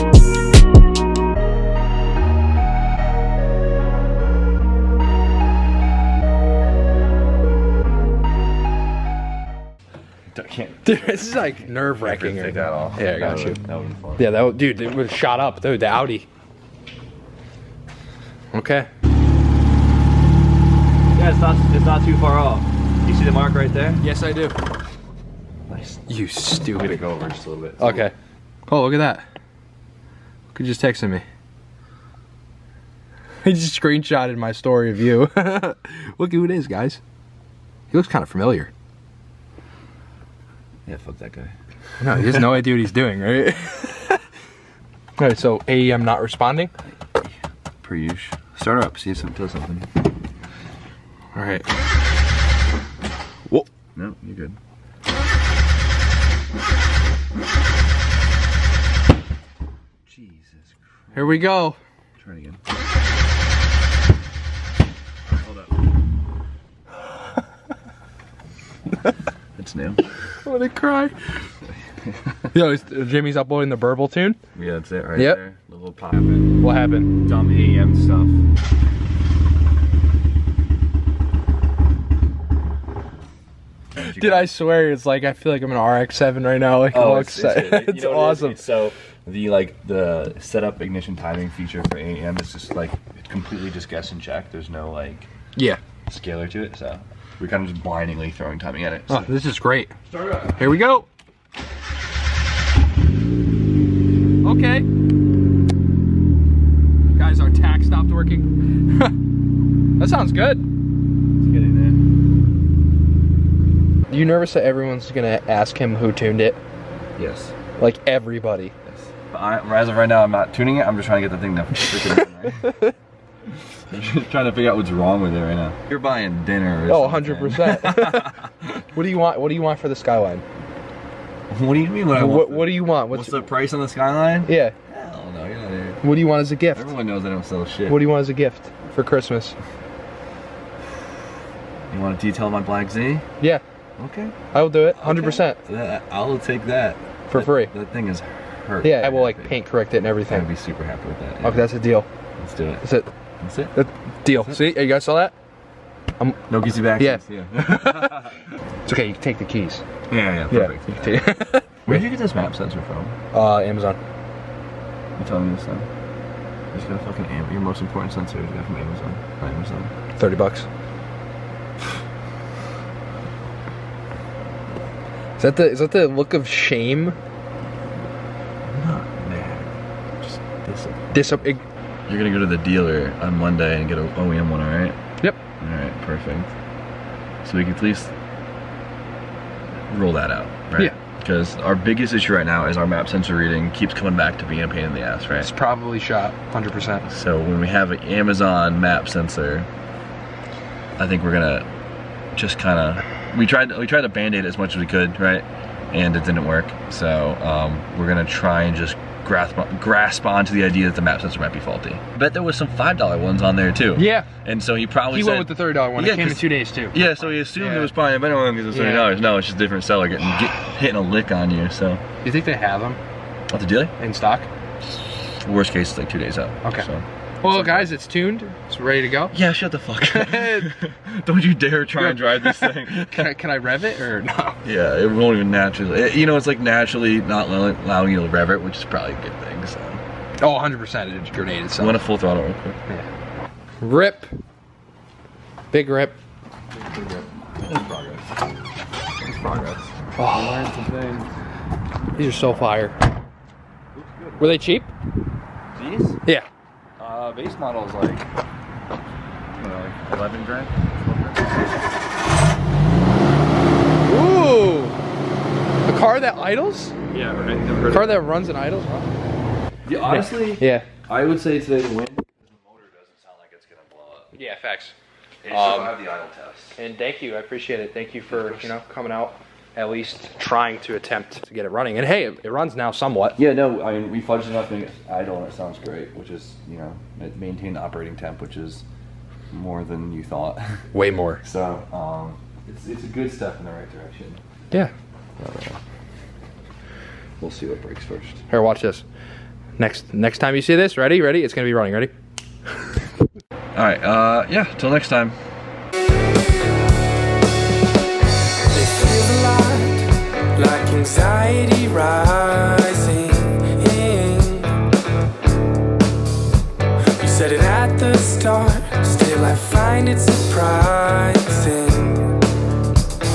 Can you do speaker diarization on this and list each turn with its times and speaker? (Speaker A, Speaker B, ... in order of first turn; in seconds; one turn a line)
Speaker A: 10.3-14.3
Speaker B: 10.8-13.6
Speaker B: 14.2-16.3
Speaker B: 18.5-18.9
Speaker A: 21.1-24.0
Speaker B: 24.0-24.6
Speaker A: 25.7-26.0
Speaker B: 26.1-27.0
Speaker A: 26.7-28.1
Speaker B: 27.8-28.1
Speaker B: 28.7-29.2
Speaker B: 30.5-31.2
Speaker B: 33.4-37.0
Speaker B: 37.9-38.7
Speaker A: 40.9-41.5
Speaker B: 42.0-44.2
Speaker B: 45.2-46.7
Speaker A: 46.9-49.9
Speaker B: 51.4-51.7
Speaker A: 53.9-54.6
Speaker A: 60.1-61.5
Speaker B: 61.1-61.8
Speaker A: 62.2-62.6
Speaker A: 65.3-65.8
Speaker A: 69.6-70.0
Speaker B: 70.4-71.2
Speaker A: 72.0-72.3
Speaker B: 72.5-74.4
Speaker A: 74.5-76.5
Speaker B: 76.6-77.1
Speaker A: 77.2-78.4
Speaker A: 83.9-84.5
Speaker B: 84.0-88.6
Speaker A: 86.9-95.3
Speaker A: 96.1-99.3
Speaker B: 99.1-99.9
Speaker A: 100.1-100.8
Speaker B: 100.6-101.1
Speaker B: 104.4-104.9
Speaker B: 107.1-109.1
Speaker B: 110.0-110.6
Speaker A: 111.4-112.0
Speaker B: 114.1-116.6
Speaker A: 117.2-117.5
Speaker B: 117.8-118.7
Speaker A: 118.9-122.7
Speaker A: 123.9-128.8
Speaker B: 126.9-130.4
Speaker A: 131.5-136.0
Speaker B: 132.1-133.5
Speaker B: 134.5-134.7
Speaker B: 136.0-136.9
Speaker A: 136.7-138.0
Speaker B: 137.9-139.6
Speaker A: 141.9-143.3
Speaker A: 144.0-144.4
Speaker B: 144.5-145.6
Speaker A: 144.9-149.5
Speaker B: 147.3-147.7
Speaker B: 148.8-150.5
Speaker A: 150.3-151.7
Speaker B: 151.4-152.1
Speaker A: 152.4-152.8
Speaker B: 152.8-153.1
Speaker A: 153.4-153.7
Speaker B: 153.7-155.3
Speaker A: 156.5-158.4
Speaker B: 157.0-158.2
Speaker B: 158.9-159.8
Speaker A: 160.1-161.2
Speaker B: 160.5-162.0
Speaker A: 161.8-163.2
Speaker B: 163.3-164.0
Speaker A: 165.2-165.9
Speaker A: 166.7-169.9
Speaker B: 170.2-170.7
Speaker B: 175.4-177.2
Speaker A: 178.7-181.4
Speaker B: 181.1-181.6
Speaker A: 182.1-185.0
Speaker A: 185.6-186.5
Speaker A: 187.4-188.1
Speaker A: 189.9-195.5
Speaker B: 195.4-197.1
Speaker A: 197.0-199.7
Speaker A: 201.0-201.7
Speaker A: 202.3-222.0
Speaker B: 213.9-214.3
Speaker B: 215.1-217.9
Speaker B: 218.7-219.1
Speaker B: 222.2-223.0
Speaker A: 223.5-223.9
Speaker B: 224.0-224.5
Speaker A: 224.8-227.9
Speaker B: 227.4-229.3
Speaker A: 229.3-233.3
Speaker B: 230.0-230.8
Speaker B: 232.0-234.6
Speaker A: 234.6-240.0
Speaker B: 240.4-242.0
Speaker A: 241.8-242.8
Speaker B: 243.8-244.3
Speaker B: 245.7-246.2
Speaker A: 246.7-248.6
Speaker A: 249.2-251.4
Speaker B: 250.2-250.7
Speaker B: 252.2-253.0
Speaker A: 253.9-254.8
Speaker B: 254.4-254.9
Speaker A: 255.7-256.2
Speaker A: 257.0-258.3
Speaker A: 259.5-261.7
Speaker B: 264.0-264.9
Speaker B: 265.9-267.1
Speaker A: 267.1-268.2
Speaker B: 267.9-269.1
Speaker A: 269.9-274.3
Speaker B: 270.1-270.9
Speaker B: 274.3-274.9
Speaker A: 275.4-276.8
Speaker B: 275.5-275.9
Speaker B: 276.8-283.4
Speaker A: 278.3-278.7
Speaker A: 283.4-288.9
Speaker A: 289.5-290.8
Speaker B: 290.9-291.4
Speaker A: 291.4-294.4
Speaker A: 295.4-295.8
Speaker A: 297.4-298.4
Speaker B: 298.5-299.0
Speaker B: 299.8-302.1
Speaker A: 303.8-305.4
Speaker C: 308.7-314.8
Speaker C: 317.2-322.4